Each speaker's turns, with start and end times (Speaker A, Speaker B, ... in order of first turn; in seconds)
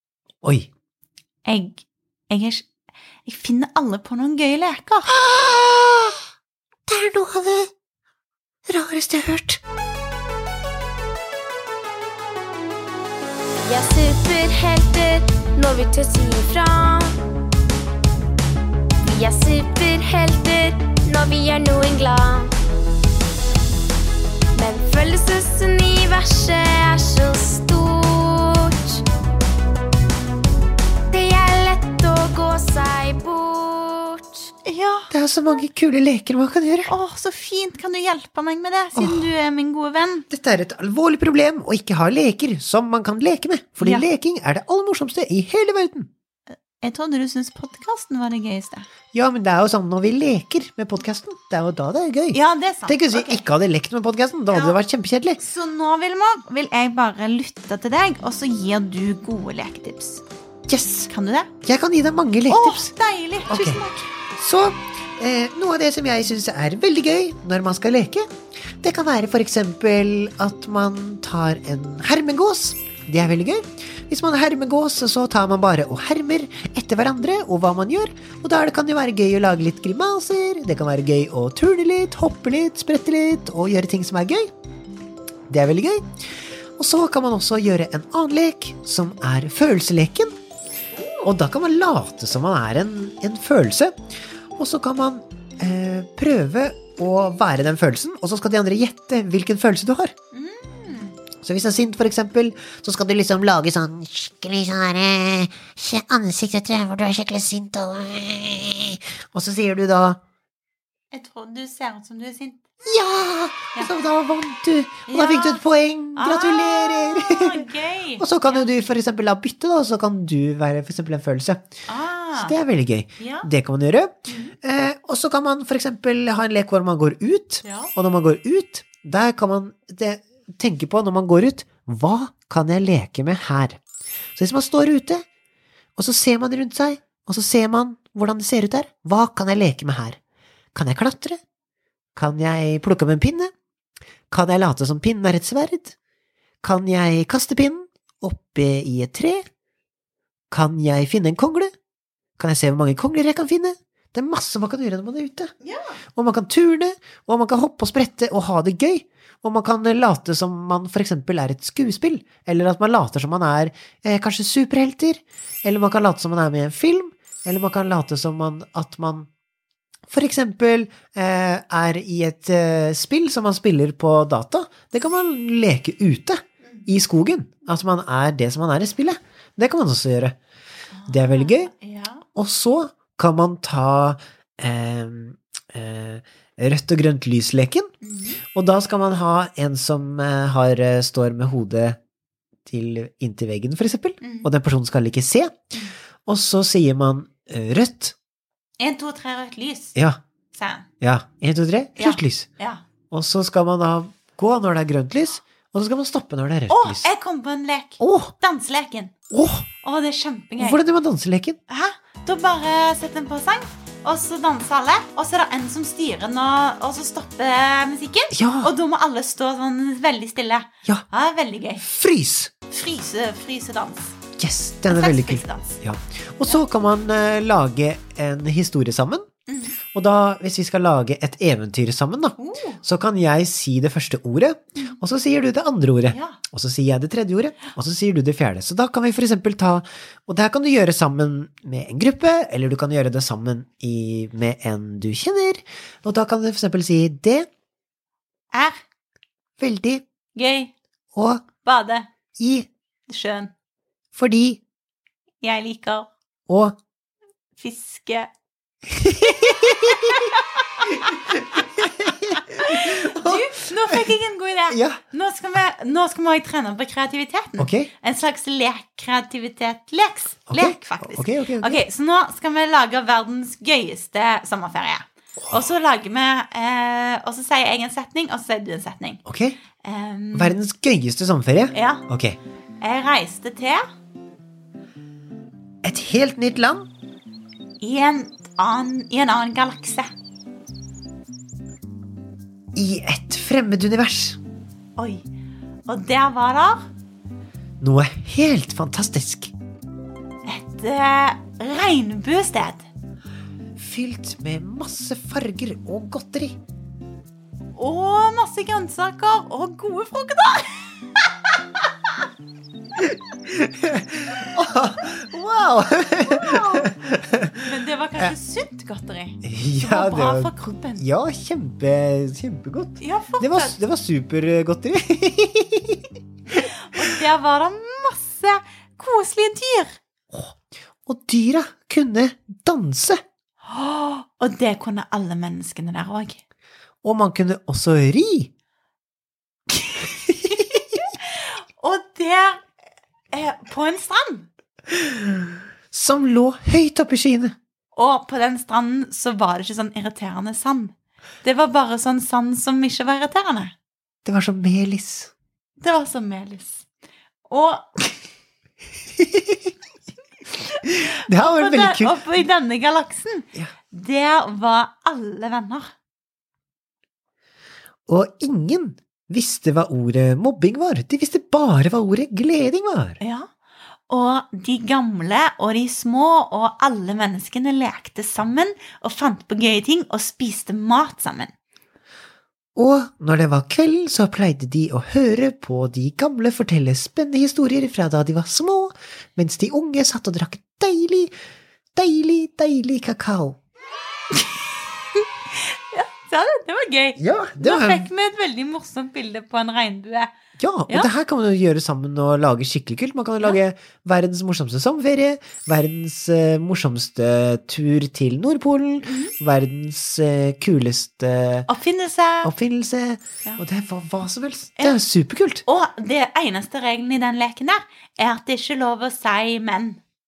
Speaker A: 0.4-0.7, 5.1-6.2, 6.9-7.7, 8.7-9.6, 35.1-36.9, 38.9-39.3, 40.3-46.1, 49.1-55.4, 60.7-61.1, 61.6-62.9, 63.5-68.3, 68.8-84.5, 85.5-86.1, 86.8-90.3, 91.2-93.9, 94.5-100.1, 101.4-110.2, 112.8-117.7, 118.2-121.7, 122.4-133.8, 134.3-135.2, 136.0-140.2, 140.7-141.4, 142.2-143.5, 144.3-145.9, 146.6-149.4, 150.5-151.7, 152.4-155.5, 156.1-169.3, 170.1-180.4, 181.1-181.7, 182.3-187.9, 188.5-192.0, 192.7-195.6, 196.2-198.1, 201.0-202.5, 203.1-207.1, 208.0-208.3, 209.3-209.7, 210.6-211.6, 218.3-218.7, 221.8-222.5, 224.4-229.3, 229.9-247.5, 249.6-250.0, 251.1-251.4, 252.4-252.7, 254.1-254.6, 256.5-256.8, 258.9-260.3, 260.8-264.1, 264.7-265.0, 267.6-267.9, 270.5-271.8, 279.2-279.6, 280.3-282.4, 285.8-286.9, 292.7-294.4, 297.8-299.5, 303.8-306.6, 313.0-317.5, 319.4-326.1, 330.3-333.2, 337.0-338.5, 340.1-340.6, 344.9-347.5, 354.2-355.3, 359.2-359.7, 360.9-362.4, 368.1-373.2, 382.8-391.3, 391.9-393.6, 397.2-398.1, 400.6-411.7, 412.4-415.6
Speaker B: 1.4-2.7, 3.2-5.1, 34.6-35.1, 36.9-40.2, 43.8-44.1, 46.5-48.9, 52.3-53.4, 55.4-60.2, 61.1-61.5, 62.5-64.1, 90.9-91.2, 100.3-101.2, 111.1-112.6, 115.1-115.6, 116.2-118.7, 121.9-122.5, 123.2-123.5, 124.3-124.5, 127.6-127.9, 155.6-156.0, 180.9-182.2, 188.0-188.4, 194.2-194.5, 198.8-199.9, 200.5-200.8, 202.0-202.8, 206.7-209.1, 209.8-210.8, 211.7-221.8, 222.7-224.2, 224.9-225.8, 229.5-229.8, 232.4-232.8, 236.1-236.4, 248.5-248.8, 250.3-250.7, 251.6-252.1, 253.1-253.5, 255.4-256.1, 257.6-258.3, 259.4-261.8, 262.5-279.2, 279.8-280.6, 281.7-282.1, 282.8-283.9, 287.8-290.1, 295.0-295.2, 295.9-296.9, 300.4-302.9, 307.7-312.1, 316.2-316.9, 317.5-321.0, 323.0-323.8, 326.5-330.0, 333.6-336.4, 340.4-342.6, 343.3-344.5, 347.9-353.7, 355.8-356.8, 357.5-358.2, 360.5-365.9, 373.2-373.5, 374.1-381.5, 394.3-400.3, 409.0-409.3, 411.7-412.5, 415.6-420.0
Speaker C: 13.6-17.2, 19.0-22.5, 24.5-29.0, 31.1-34.5